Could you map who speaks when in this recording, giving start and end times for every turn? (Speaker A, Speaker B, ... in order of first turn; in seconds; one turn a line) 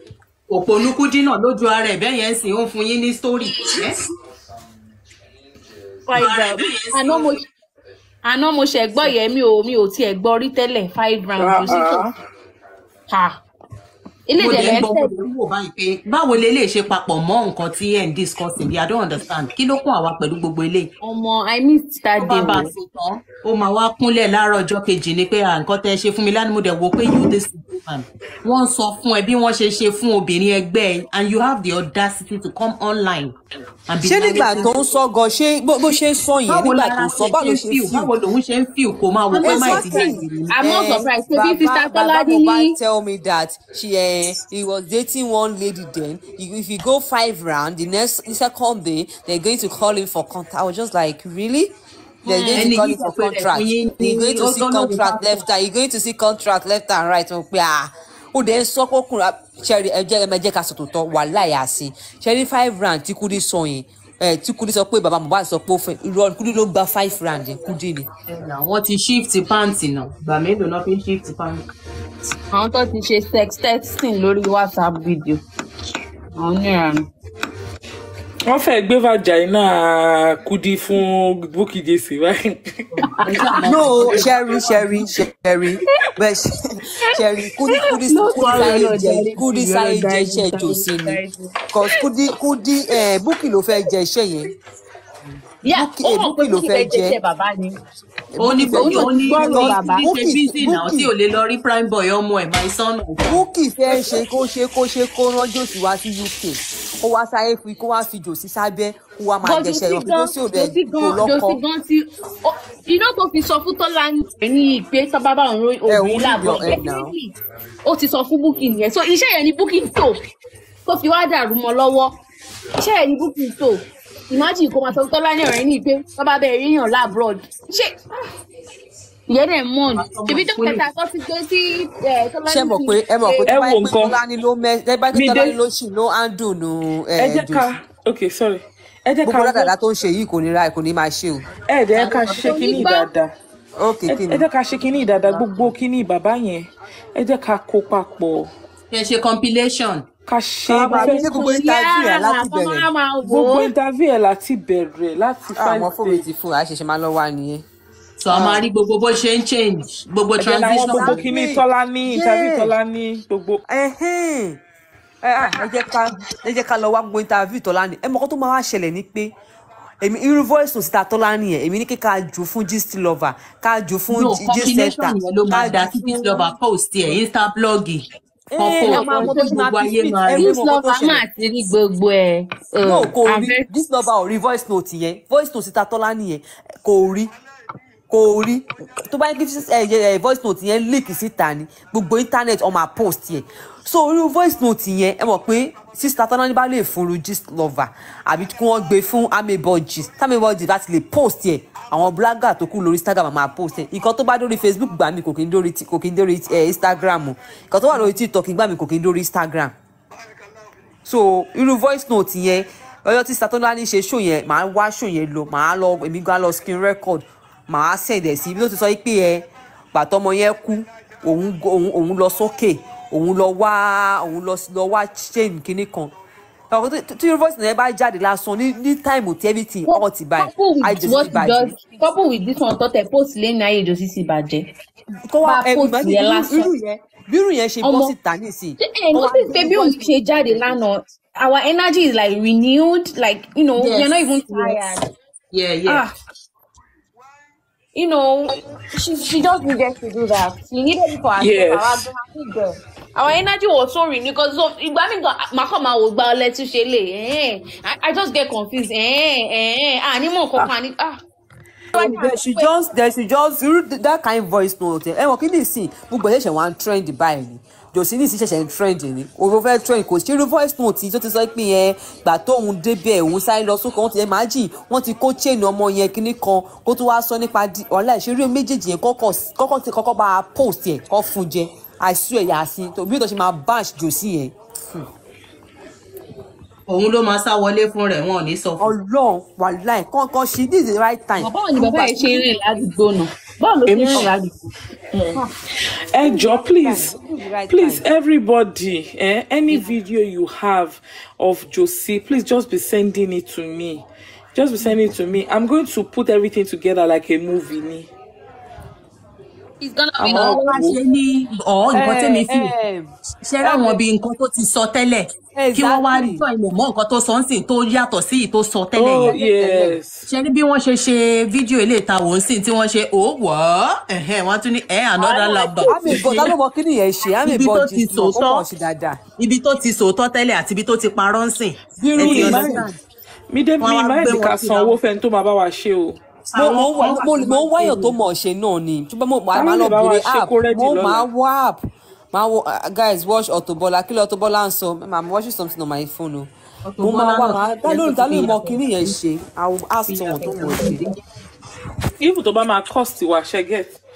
Speaker A: 0.5-4.0
Speaker B: 6.1-7.4
Speaker A: 6.1-7.4
Speaker B: 8.2-12.1
Speaker C: 11.4-12.2
Speaker B: 13.1-13.4
Speaker B: 14.3-15.1
Speaker A: 14.4-20.9
Speaker B: 21.0-22.7
Speaker A: 22.2-33.4
Speaker A: 33.9-34.8
Speaker D: 34.0-38.1
Speaker A: 36.5-40.6
Speaker B: 39.4-42.8
Speaker D: 39.4-51.7
Speaker B: 52.2-53.0
Speaker D: 52.2-68.1
Speaker A: 52.5-55.4
Speaker A: 68.3-71.6
Speaker B: 72.5-75.4
Speaker B: 76.4-77.1
Speaker C: 78.5-82.8
Speaker A: 83.0-84.8
Speaker B: 83.0-84.2
Speaker D: 83.6-91.2
Speaker B: 87.7-92.0
Speaker A: 88.3-89.5
Speaker D: 91.7-94.5
Speaker B: 95.6-97.8
Speaker D: 95.7-97.2
Speaker D: 98.3-101.1
Speaker A: 98.4-103.4
Speaker B: 98.6-100.1
Speaker D: 103.3-111.6
Speaker B: 109.4-120.2
Speaker D: 115.9-117.1
Speaker B: 120.9-122.2
Speaker B: 122.8-128.0
Speaker B: 129.3-133.5
Speaker A: 129.9-130.8
Speaker D: 132.5-137.7
Speaker C: 133.5-134.2
Speaker C: 135.1-135.6
Speaker C: 137.2-139.7
Speaker D: 139.2-141.5
Speaker C: 141.7-143.3
Speaker B: 141.9-143.1
Speaker A: 142.0-142.8
Speaker D: 143.8-144.5
Speaker C: 144.1-148.5
Speaker A: 148.9-150.1
Speaker C: 150.3-151.5
Speaker D: 150.7-152.9
Speaker B: 150.8-153.7
Speaker C: 153.2-156.3
Speaker D: 155.5-157.7
Speaker A: 158.2-161.2
Speaker D: 158.3-158.6
Speaker C: 160.4-163.6
Speaker D: 160.7-162.7
Speaker D: 163.7-164.6
Speaker D: 165.2-169.3
Speaker D: 170.0-176.5
Speaker A: 174.1-178.1
Speaker D: 178.5-181.2
Speaker A: 178.6-180.6
Speaker B: 178.8-179.6
Speaker B: 180.4-183.7
Speaker D: 182.8-187.3
Speaker D: 188.1-209.7
Speaker D: 211.1-226.1
Speaker D: 226.7-231.8
Speaker B: 229.9-234.7
Speaker D: 235.3-240.8
Speaker B: 235.4-236.7
Speaker B: 237.8-238.2
Speaker B: 238.8-245.1
Speaker A: 243.8-245.0
Speaker A: 245.5-246.1
Speaker B: 247.9-261.2
Speaker C: 251.4-252.1
Speaker B: 261.9-262.7
Speaker D: 261.9-285.1
Speaker A: 286.9-288.9
Speaker D: 288.8-292.6
Speaker B: 291.4-294.6
Speaker C: 293.9-294.3
Speaker C: 295.1-295.5
Speaker C: 296.1-297.2
Speaker D: 296.2-298.0
Speaker C: 297.7-308.1
Speaker B: 309.8-310.9
Speaker C: 310.2-311.0
Speaker A: 310.3-312.7
Speaker D: 311.9-313.1
Speaker A: 313.4-319.4
Speaker D: 313.6-314.0
Speaker D: 315.6-316.4
Speaker C: 318.9-320.3
Speaker D: 319.3-320.0
Speaker A: 320.3-326.5
Speaker B: 325.2-326.5
Speaker D: 325.9-329.2
Speaker A: 327.4-328.6
Speaker A: 329.4-333.0
Speaker D: 332.0-332.9
Speaker C: 332.1-332.9
Speaker C: 333.5-336.2
Speaker A: 333.8-335.0
Speaker A: 336.5-338.1
Speaker D: 336.6-341.8
Speaker C: 339.5-341.3
Speaker D: 342.3-346.5
Speaker A: 346.9-349.1
Speaker D: 347.0-351.0
Speaker A: 350.1-351.2
Speaker C: 352.2-354.0